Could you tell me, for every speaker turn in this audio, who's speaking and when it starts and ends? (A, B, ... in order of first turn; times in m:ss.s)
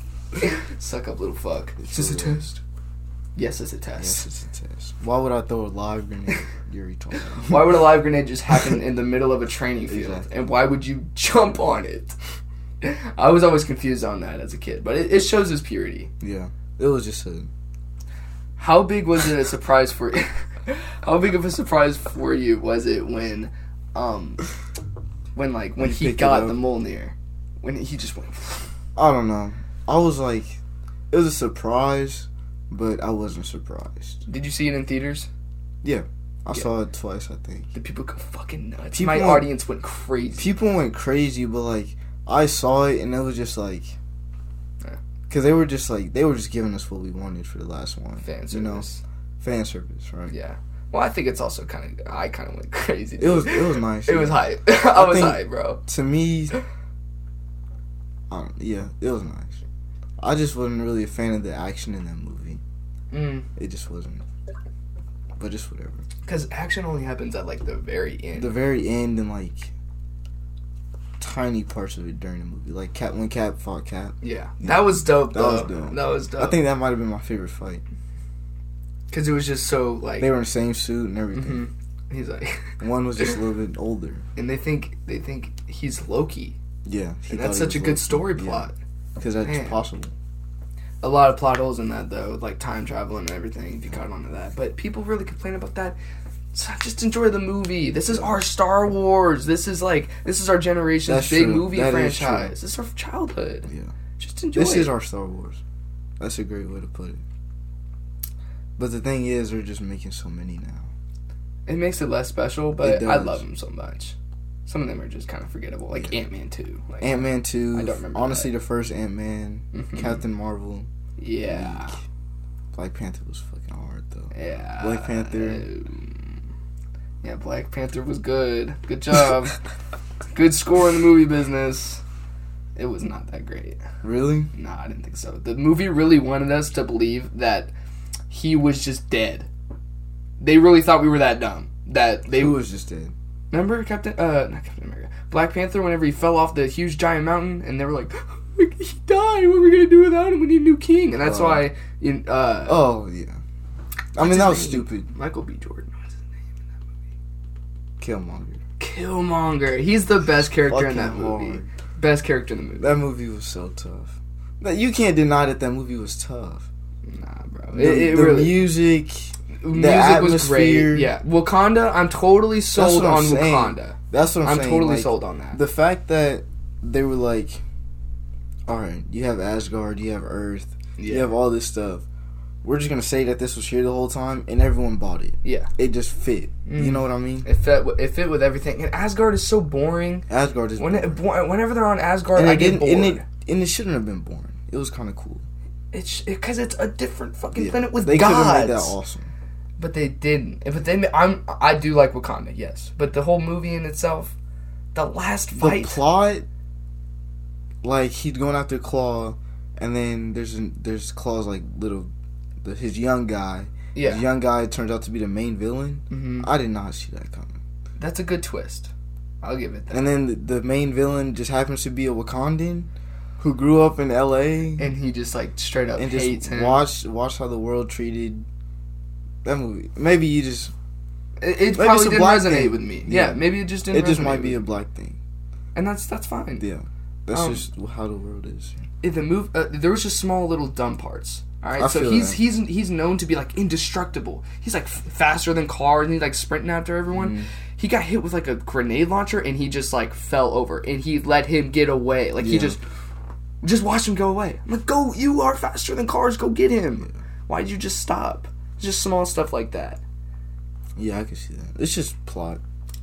0:00.4-0:02.6 A
0:01.8-0:02.4 B
0:03.4-0:04.3 A
0:04.0-0:07.9 B
0:07.4-0:12.2 A
0:09.9-0:10.3 B
0:12.8-0:16.1 A
0:16.2-0:17.5 B
0:18.6-0:24.4 A
0:25.4-0:28.7 A
0:25.8-0:26.6 B
0:29.0-0:34.2 B
0:34.3-0:35.3 A
0:35.8-0:37.7 B
0:37.7-0:40.6 A
0:38.9-0:39.5 B
0:40.4-0:44.0 B
0:45.3-0:48.9 B
0:48.2-0:49.0 A
0:49.4-0:50.3 B
0:50.3-0:55.8 A
0:53.2-0:56.5 B
0:58.3-0:59.6 B
1:00.2-1:02.6 B
1:03.1-1:03.5 A
1:03.6-1:04.2 B
1:05.4-1:06.0 B
1:06.2-1:08.6 A
1:08.3-1:09.7 B
1:11.2-1:17.8 B
1:14.2-1:16.6 A
1:19.1-1:20.3 A
1:20.2-1:21.6 B
1:21.3-1:23.4 A
1:22.8-1:24.3 B
1:24.4-1:26.6 A
1:26.8-1:30.1 B
1:27.3-1:28.8 A
1:29.4-1:29.8 A
1:31.0-1:36.0 A
1:36.5-1:44.9 A
1:38.1-1:38.4 B
1:41.1-1:42.6 B
1:43.7-1:43.9 B
1:44.5-1:45.6 B
1:46.2-1:47.2 B
1:48.8-1:50.9 B
1:51.7-1:54.2 A
1:52.8-1:53.4 B
1:54.7-1:58.5 A
1:57.0-2:00.9 B
1:59.7-2:00.2 A
2:01.2-2:02.0 A
2:01.4-2:02.0 B
2:02.7-2:05.7 B
2:04.3-2:06.3 A
2:07.2-2:09.6 A
2:10.3-2:12.0 A
2:12.8-2:13.8 A
2:14.0-2:14.5 B
2:14.5-2:17.7 A
2:18.3-2:19.5 A
2:20.4-2:22.6 A
2:22.4-2:23.1 B
2:23.5-2:32.9 A
2:31.2-2:31.7 B
2:32.6-2:33.4 B
2:34.2-2:35.1 B
2:34.2-2:36.3 A
2:38.0-2:38.6 B
2:38.8-2:43.0 A
2:40.4-2:41.7 B
2:42.8-2:46.7 B
2:47.1-2:48.7 A
2:47.7-2:51.1 B
2:49.6-2:55.6 A
2:52.8-2:57.6 B
2:58.7-3:02.0 B
3:01.0-3:01.3 A
3:02.6-3:07.5 B
3:05.4-3:05.7 A
3:06.7-3:13.2 A
3:10.3-3:11.2 B
3:12.4-3:15.5 B
3:15.9-3:19.0 A
3:17.6-3:19.3 B
3:19.8-3:24.4 A
3:25.0-3:26.0 A
3:25.6-3:26.5 B
3:27.8-3:32.1 B
3:32.6-3:37.6 B
3:34.0-3:34.2 A
3:36.1-3:36.5 A
3:38.0-3:40.0 A
3:39.9-3:44.9 B
3:44.8-3:46.8 A
3:46.0-3:48.5 B
3:49.4-3:50.7 B
3:51.4-3:54.6 A
3:51.7-3:55.2 B
3:55.8-3:56.7 A
3:56.6-3:58.9 B
3:57.3-3:57.6 A
3:59.0-4:12.8 A
4:01.8-4:02.4 B
4:07.1-4:07.5 B
4:12.4-4:12.8 B
4:13.6-4:20.0 A
4:21.0-4:22.6 B